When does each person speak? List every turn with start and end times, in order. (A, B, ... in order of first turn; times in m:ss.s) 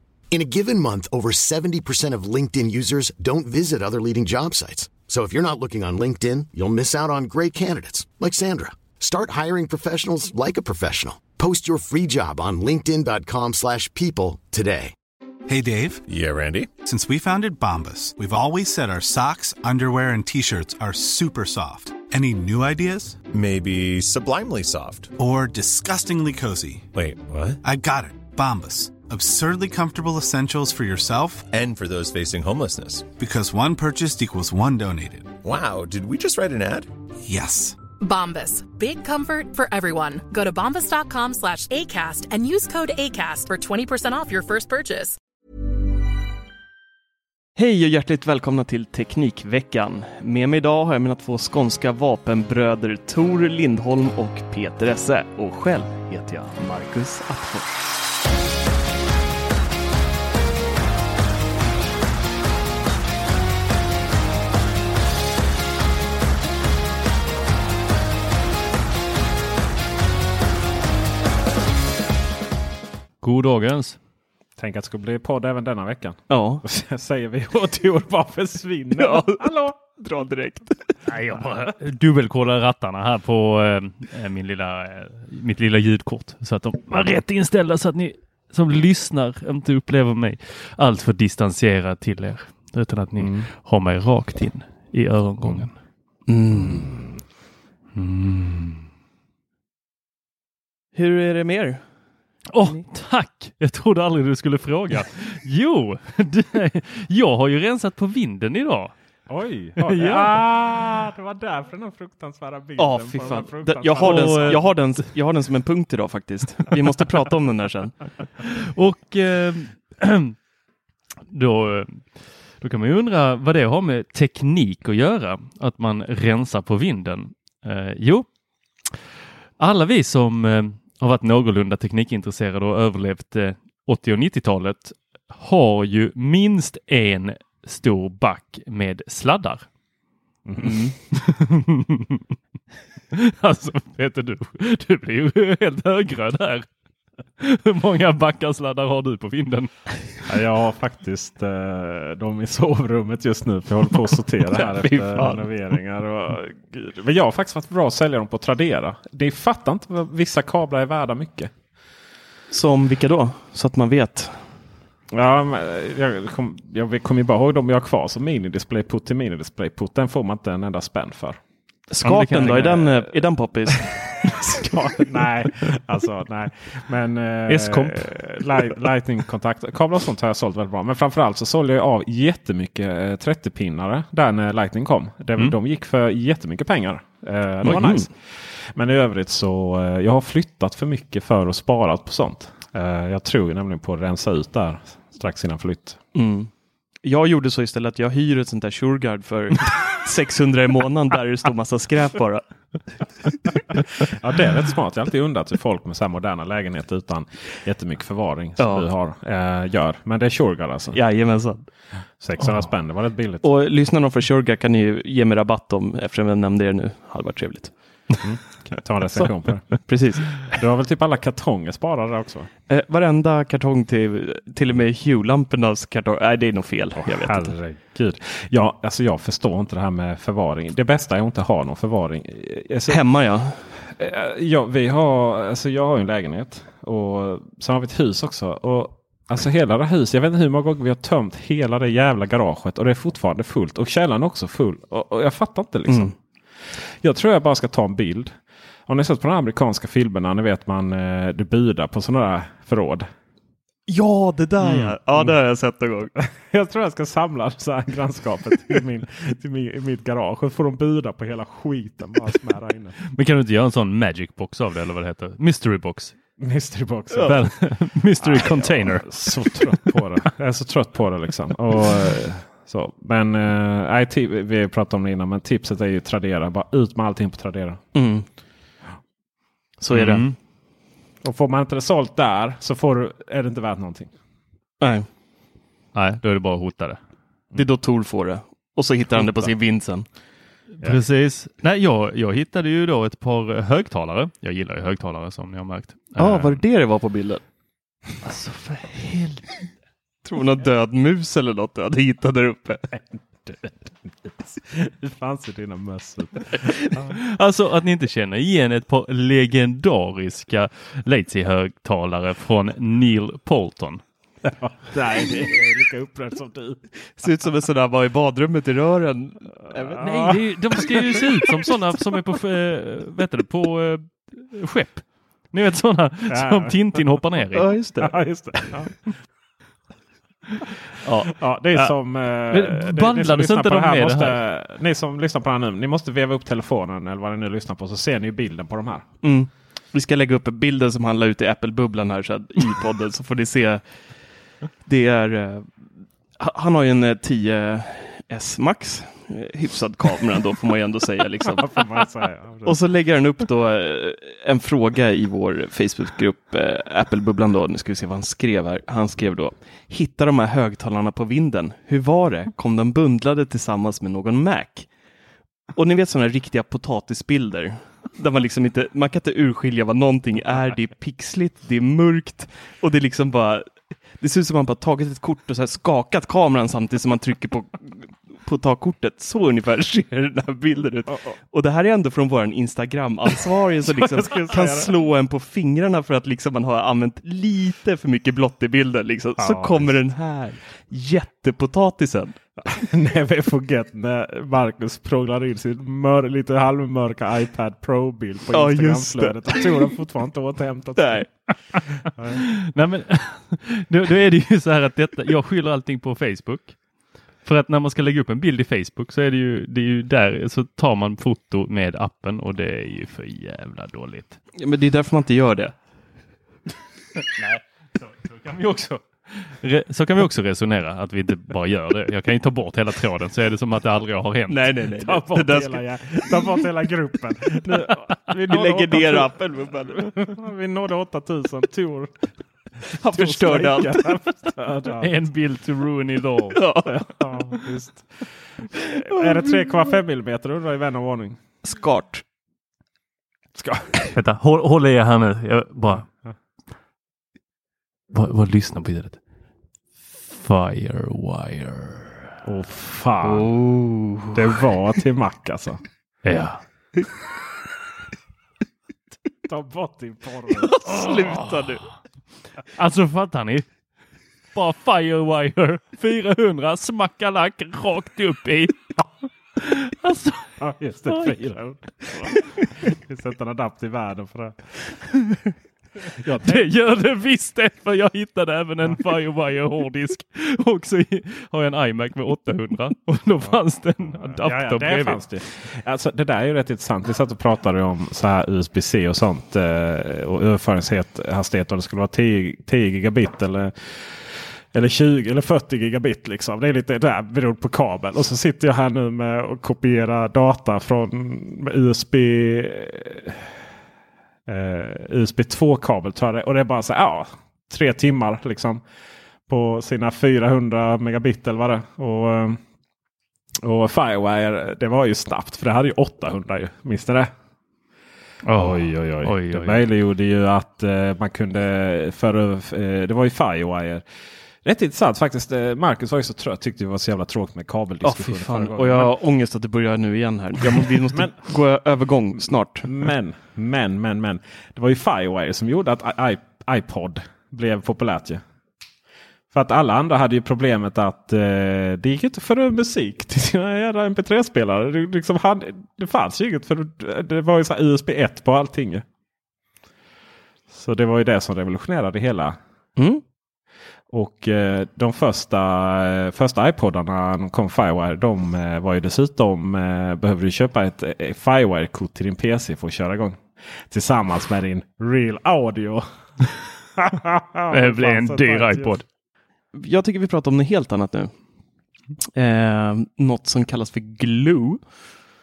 0:00.3-0:14.9 A
0:15.5-0:16.0 B
0:16.1-0:16.7 C
0:16.8-0:23.2 B
0:23.2-0:25.1 C
0:25.2-0:26.9 B
0:26.9-0:27.6 C
0:27.6-0:31.5 B
0:31.5-0:33.1 C
0:33.2-0:35.4 B
0:35.4-0:36.9 C
0:37.2-0:37.8 B
0:38.0-0:45.2 D
0:47.6-0:57.9 E
1:13.2-1:14.0 F
1:14.6-1:19.7 G
1:16.3-1:16.6 E
1:19.0-1:21.0 E
1:21.1-1:35.8 F
1:33.2-1:33.5 G
1:35.4-1:35.7 G
1:36.3-1:36.9 E
1:36.7-1:37.0 G
1:38.0-1:38.9 F
1:41.0-1:41.8 E
1:42.5-1:48.9 F
1:49.3-1:54.6 G
1:49.8-1:50.3 F
1:52.8-1:58.0 E
1:54.0-1:54.6 F
1:58.7-2:00.4 F
2:01.3-2:08.3 F
2:09.6-2:19.7 F
2:20.5-2:20.8 G
2:20.6-2:20.9 E
2:21.1-2:22.2 F
2:23.1-2:26.7 F
2:27.4-2:30.2 F
2:30.3-2:41.5 G
2:34.6-2:35.4 E
2:42.5-2:44.5 E
2:45.1-2:51.4 G
2:51.9-2:53.9 E
2:52.0-2:52.7 F
2:52.2-2:53.1 G
2:54.6-3:16.0 G
3:07.6-3:08.1 E
3:16.2-3:16.5 E
3:17.0-3:23.1 E
3:24.1-3:31.0 G
3:28.6-3:28.9 E
3:30.9-3:31.7 E
3:32.2-3:33.5 G
3:33.4-3:38.2 E
3:38.2-3:39.9 G
3:39.8-3:40.4 E
3:40.4-3:42.5 G
3:42.7-3:47.5 E
3:47.0-3:53.0 G
3:52.9-3:53.7 E
3:53.8-4:06.1 G
4:05.9-4:06.1 E
4:06.8-4:08.4 G
4:08.9-4:13.1 G
4:13.9-4:16.1 E
4:14.6-4:15.3 G
4:16.2-4:23.0 G
4:23.0-4:26.1 F
4:26.4-4:27.6 G
4:27.3-4:30.0 F
4:28.2-4:37.8 G
4:38.0-4:38.3 E
4:39.8-4:40.3 E
4:39.9-4:40.4 F
4:41.2-4:44.1 G
4:44.8-4:45.1 E
4:45.9-4:47.0 F
4:47.5-4:50.1 E
4:49.2-4:49.5 G
4:50.8-4:56.6 F
4:56.2-4:57.4 E
4:58.2-4:59.7 F
5:00.2-5:02.8 E
5:02.9-5:07.1 G
5:07.1-5:14.0 F
5:14.4-5:16.8 G
5:17.2-5:20.0 E
5:19.7-5:21.5 G
5:20.0-5:27.7 F
5:26.3-5:27.0 G
5:27.6-5:28.1 E
5:28.0-5:28.9 G
5:31.0-5:31.3 E
5:31.4-5:39.0 G
5:32.5-5:34.4 F
5:39.2-5:43.8 E
5:44.8-5:45.7 E
5:46.4-5:51.7 E
5:51.5-5:52.8 G
5:52.6-6:04.9 E
6:05.8-6:32.4 E
6:23.9-6:24.9 G
6:29.4-6:30.0 G
6:32.6-6:41.3 G
6:38.5-6:39.7 E
6:41.0-6:41.3 E
6:42.2-6:42.4 G
6:42.4-6:46.8 F
6:47.4-6:54.4 F
6:54.6-6:55.7 E
6:58.1-7:04.9 F
7:04.5-7:05.8 E
7:05.0-7:09.3 G
7:08.5-7:10.1 E
7:09.9-7:12.1 G
7:13.0-7:14.1 E
7:13.1-7:15.1 G
7:15.0-7:16.7 F
7:16.6-7:17.0 E
7:16.9-7:18.1 G
7:18.8-7:21.4 G
7:21.6-7:22.2 E
7:23.6-7:24.0 G
7:24.1-7:26.0 F
7:28.1-7:29.2 F
7:30.3-7:32.3 F
7:32.4-7:33.5 G
7:33.6-7:34.2 E
7:34.3-7:35.8 G
7:36.2-7:36.6 F
7:39.5-7:41.0 G
7:40.7-7:41.9 E
7:40.9-7:41.4 F
7:42.8-7:43.7 F
7:44.6-7:49.0 F
7:49.6-7:50.5 F
7:50.6-7:54.8 G
7:51.1-7:51.4 F
7:56.2-8:05.2 F
7:56.2-7:56.7 G
8:03.4-8:23.5 G
8:24.5-8:28.8 G
8:29.5-8:32.6 G
8:33.6-8:37.3 G
8:38.4-8:39.8 F
8:38.6-8:44.0 G
8:44.6-8:49.1 G
8:48.0-8:52.9 E
8:51.1-8:51.4 G
8:52.8-8:58.4 G
8:59.5-9:09.0 G
9:10.7-9:12.6 G
9:13.0-9:13.2 E
9:14.1-9:29.0 G
9:27.7-9:29.0 F
9:29.7-9:31.3 E
9:32.4-9:34.9 E